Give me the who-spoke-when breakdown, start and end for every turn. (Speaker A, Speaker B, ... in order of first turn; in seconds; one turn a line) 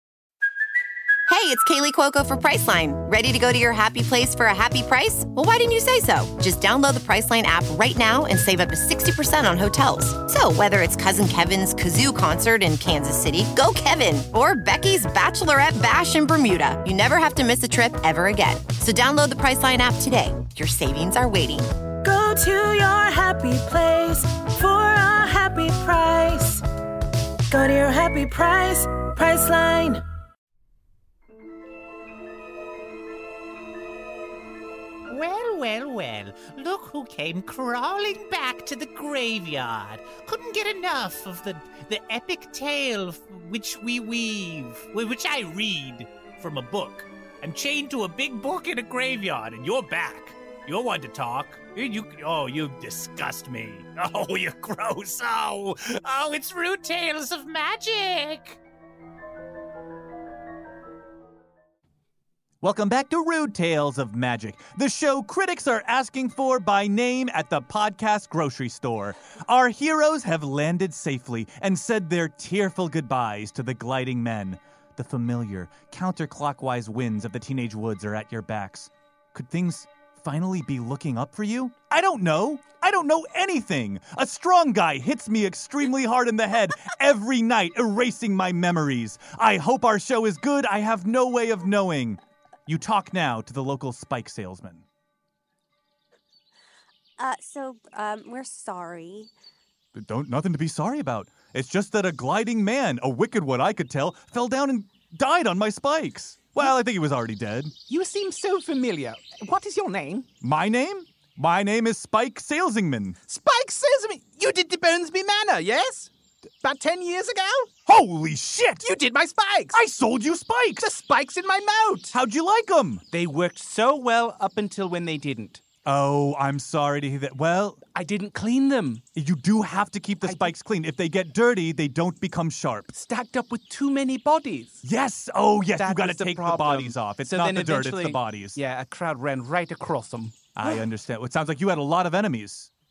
Speaker A: 1.3-21.7
Speaker B: 22.0-26.6
Speaker B: 27.5-30.0
Speaker C: 35.1-58.6
Speaker D: 62.6-94.8
Speaker E: 97.2-99.3
Speaker D: 99.9-107.7
Speaker F: 107.9-110.3
Speaker D: 110.4-113.2
Speaker F: 113.3-116.1
Speaker F: 116.6-117.7
Speaker D: 117.8-118.9
Speaker F: 118.8-119.8
Speaker D: 119.7-120.8
Speaker F: 120.8-122.1
Speaker D: 122.1-123.0
Speaker F: 123.1-125.6
Speaker D: 125.8-127.8
Speaker F: 127.9-129.0
Speaker D: 129.2-132.9
Speaker F: 130.2-130.5
Speaker F: 132.9-134.8
Speaker D: 134.8-138.6
Speaker F: 135.8-140.4
Speaker D: 140.6-142.7